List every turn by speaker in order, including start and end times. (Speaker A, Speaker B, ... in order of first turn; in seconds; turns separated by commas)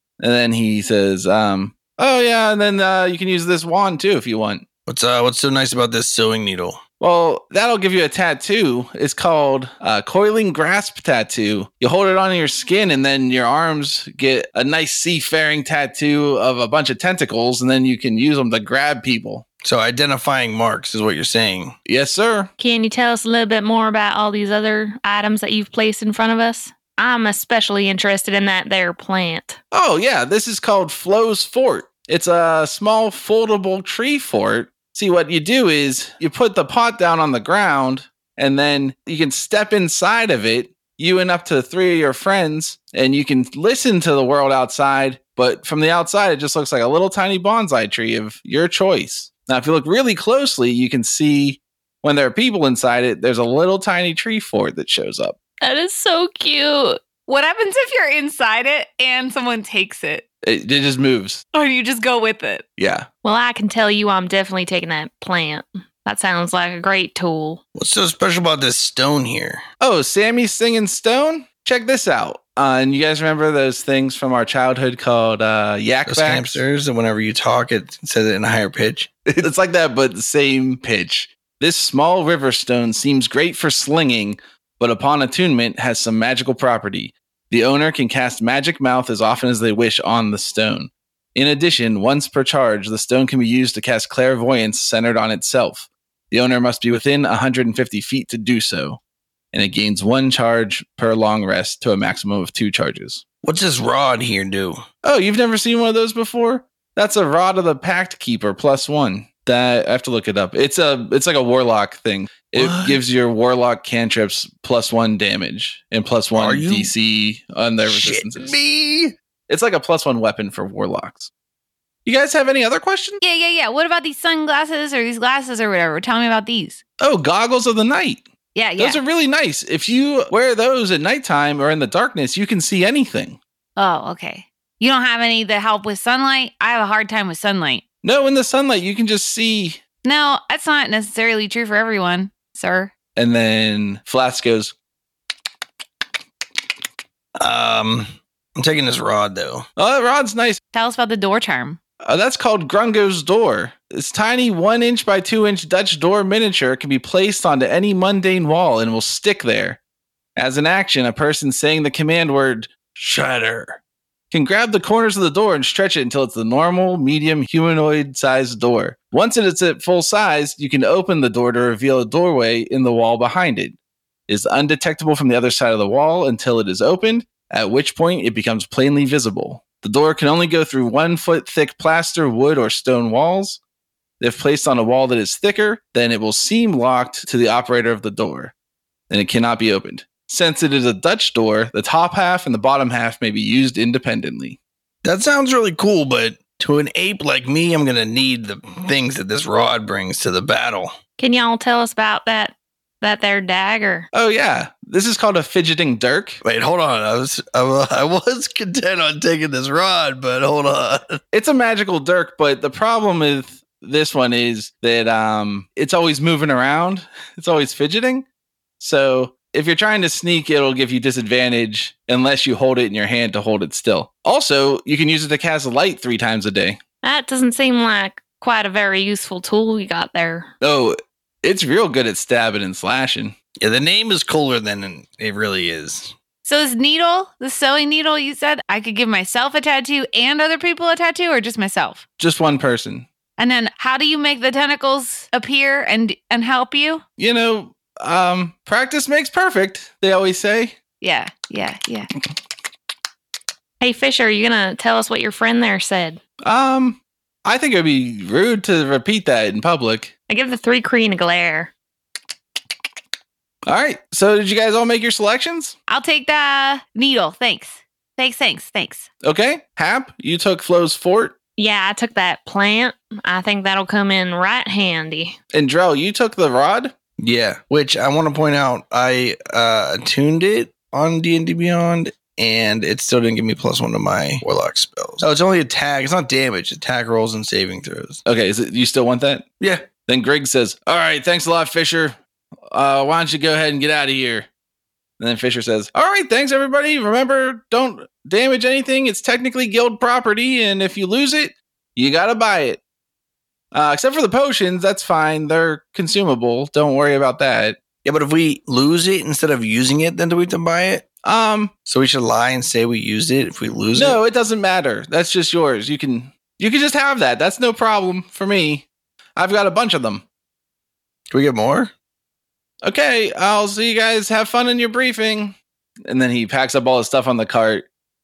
Speaker A: 0.2-4.6, Speaker B: 4.9-6.8, Speaker A: 7.0-19.4, Speaker B: 19.6-21.8, Speaker A: 21.9-22.5, Speaker C: 22.6-29.6, Speaker A: 29.7-55.4, Speaker C: 55.6-57.0, Speaker D: 57.3-60.2, Speaker A: 60.4-61.4, Speaker D: 61.5-62.6, Speaker A: 62.8-63.1, Speaker C: 63.2-67.6, Speaker B: 67.7-69.6, Speaker A: 69.8-76.6, Speaker B: 76.1-79.3, Speaker A: 79.4-99.0, Speaker A: 99.5-103.2, Speaker B: 103.4-104.8, Speaker A: 105.0-118.6, Speaker B: 112.5-113.0, Speaker B: 116.3-116.9, Speaker B: 117.8-119.2, Speaker A: 119.5-121.3, Speaker A: 122.0-123.2, Speaker D: 123.2-126.8, Speaker A: 127.0-128.3, Speaker D: 128.6-129.0, Speaker A: 128.8-133.4, Speaker D: 133.8-137.8, Speaker A: 138.0-139.8, Speaker D: 140.0-142.9, Speaker A: 143.2-144.7, Speaker B: 147.4-149.7, Speaker A: 149.8-150.6, Speaker D: 150.7-151.8, Speaker A: 152.0-159.8, Speaker A: 160.4-162.9, Speaker B: 162.9-163.8, Speaker A: 164.3-173.8, Speaker A: 174.3-183.6, Speaker A: 184.2-188.5, Speaker A: 189.1-194.6, Speaker B: 195.0-200.9, Speaker C: 201.2-204.1, Speaker A: 204.1-206.4, Speaker B: 206.4-211.2, Speaker A: 211.3-218.2, Speaker A: 218.8-226.8, Speaker C: 227.0-230.5, Speaker A: 230.6-233.3, Speaker B: 233.6-236.1, Speaker D: 236.4-242.0, Speaker A: 242.2-243.1, Speaker D: 243.4-247.0, Speaker A: 247.2-250.8, Speaker D: 251.0-252.1, Speaker C: 253.8-256.2, Speaker A: 256.4-260.1, Speaker C: 260.3-261.7, Speaker A: 263.7-265.7, Speaker D: 265.9-269.1, Speaker A: 269.2-271.3, Speaker C: 271.6-275.4, Speaker A: 275.5-276.9, Speaker B: 277.2-288.2, Speaker A: 288.2-289.4, Speaker B: 289.6-289.9, Speaker A: 290.1-292.1, Speaker A: 292.7-294.5, Speaker A: 295.2-302.8, Speaker A: 303.7-307.8, Speaker B: 308.0-311.1, Speaker A: 311.2-311.7, Speaker B: 311.9-314.2, Speaker A: 313.9-320.2, Speaker B: 321.3-321.9, Speaker A: 322.8-327.9